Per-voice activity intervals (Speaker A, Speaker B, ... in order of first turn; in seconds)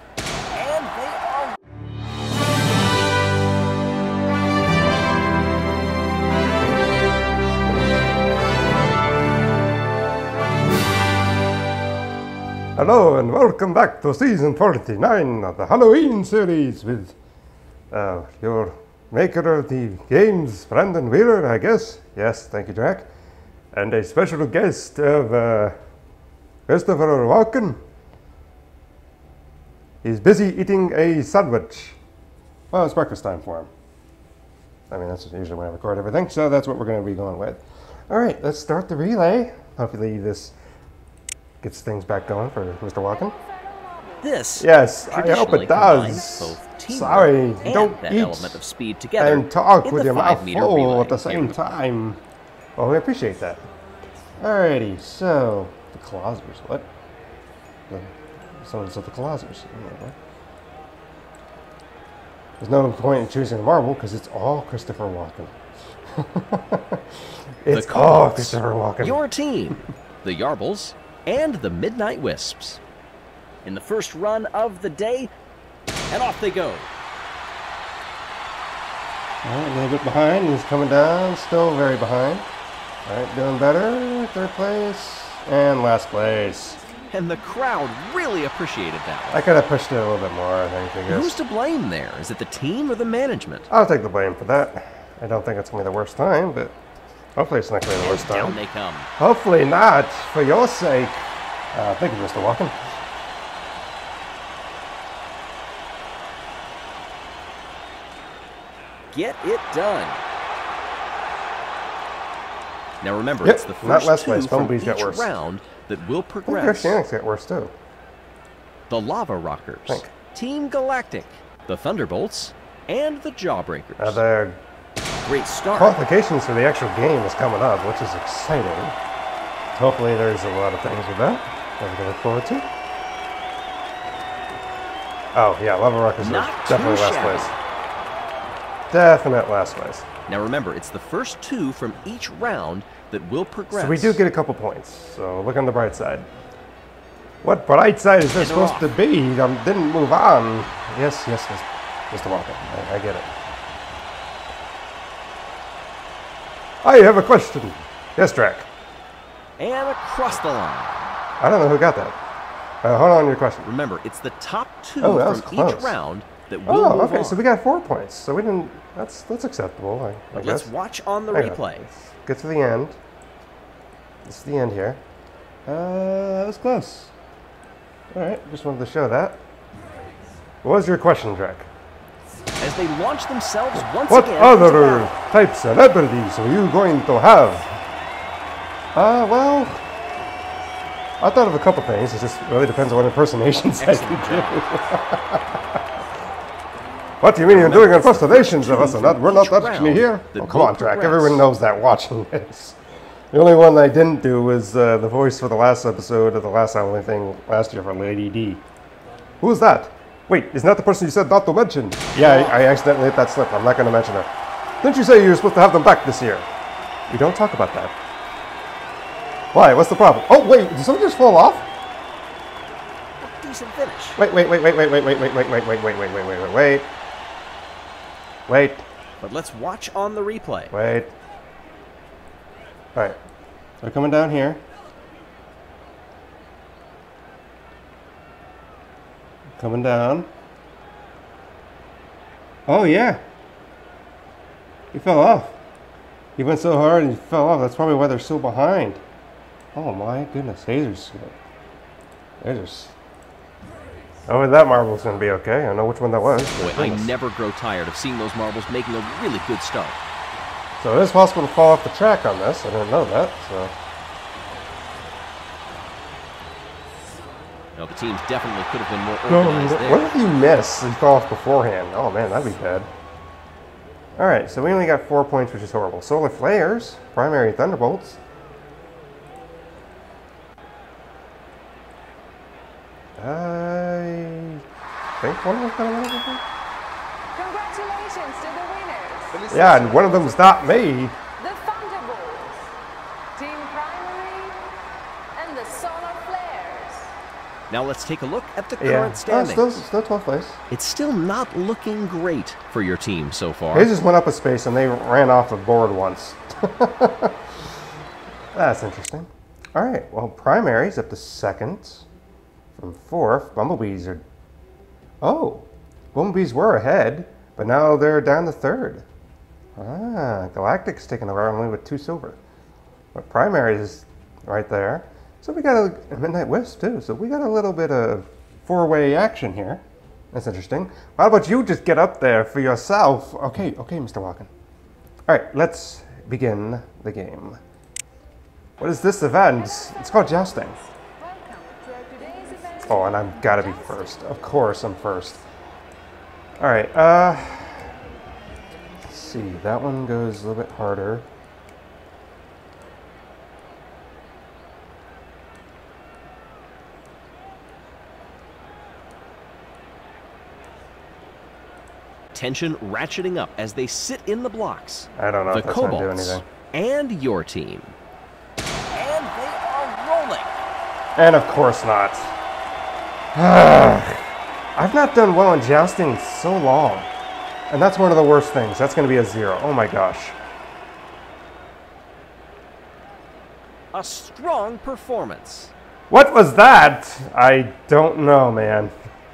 Speaker A: 0.5-1.5, 44.2-51.6, 67.7-72.8, 73.7-75.3, 76.1-76.9, 87.1-89.5, 91.1-93.7, 98.0-99.1, 109.1-110.2, 113.0-117.0, 118.9-124.2, 125.2-126.0, 136.2-137.5, 140.3-144.2, 148.3-148.9, 159.6-161.1, 163.6-167.4, 170.3-171.9, 182.6-185.1, 193.8-194.6, 197.4-201.5, 212.1-212.6, 223.2-224.2, 229.2-230.7, 256.6-260.0, 267.8-270.1, 297.7-299.8, 300.7-303.9, 362.3-367.9, 368.9-370.6, 383.9-385.7
Speaker B: 12.8-17.1, 17.9-23.1, 23.7-25.8, 26.7-27.8, 30.0-32.0, 32.7-33.7, 34.9-40.5, 41.6-43.4, 44.6-48.6, 49.2-52.2, 52.8-53.6, 54.4-56.9, 58.6-60.2, 62.6-67.0, 67.6-69.2, 79.4-82.5, 83.1-86.8, 89.3-91.4, 93.7-96.8, 97.4-98.6, 99.2-102.7, 113.4-115.4, 116.5-117.7, 119.9-120.1, 124.0-124.6, 125.7-128.9, 129.7-132.7, 135.3-137.6, 138.9-140.1, 143.7-146.3, 147.4-153.3, 156.8-158.7, 161.4-162.2, 162.8-163.7, 165.0-166.0, 166.7-170.7, 171.3-173.0, 174.2-175.0, 175.7-177.1, 178.1-179.4, 180.6-181.7, 183.9-187.7, 188.9-189.8, 191.2-195.6, 197.2-202.8, 203.3-208.6, 209.4-214.3, 214.8-216.5, 217.1-217.9, 219.5-221.7, 224.2-226.9, 228.5-228.8, 230.7-231.1, 232.9-233.2, 233.8-234.6, 239.6-240.3, 242.7-243.2, 244.9-245.6, 246.4-249.0, 249.7-251.4, 252.4-252.9, 254.3-257.1, 260.8-263.7, 269.3-272.9, 274.2-278.2, 283.2-284.6, 285.2-286.4, 289.5-291.1, 298.8-300.6, 303.7-307.4, 308.5-312.1, 312.8-314.2, 315.2-319.1, 319.8-322.4, 323.1-334.5, 335.3-337.6, 338.8-340.8, 342.8-345.4, 346.6-347.9, 349.0-351.2, 365.2-366.4, 371.2-372.3, 373.3-374.2, 374.8-377.1, 377.7-380.4, 386.1-388.9
Speaker C: 43.5-44.2, 287.4-289.6, 291.4-292.7, 293.4-294.7, 295.4-297.1, 341.2-344.0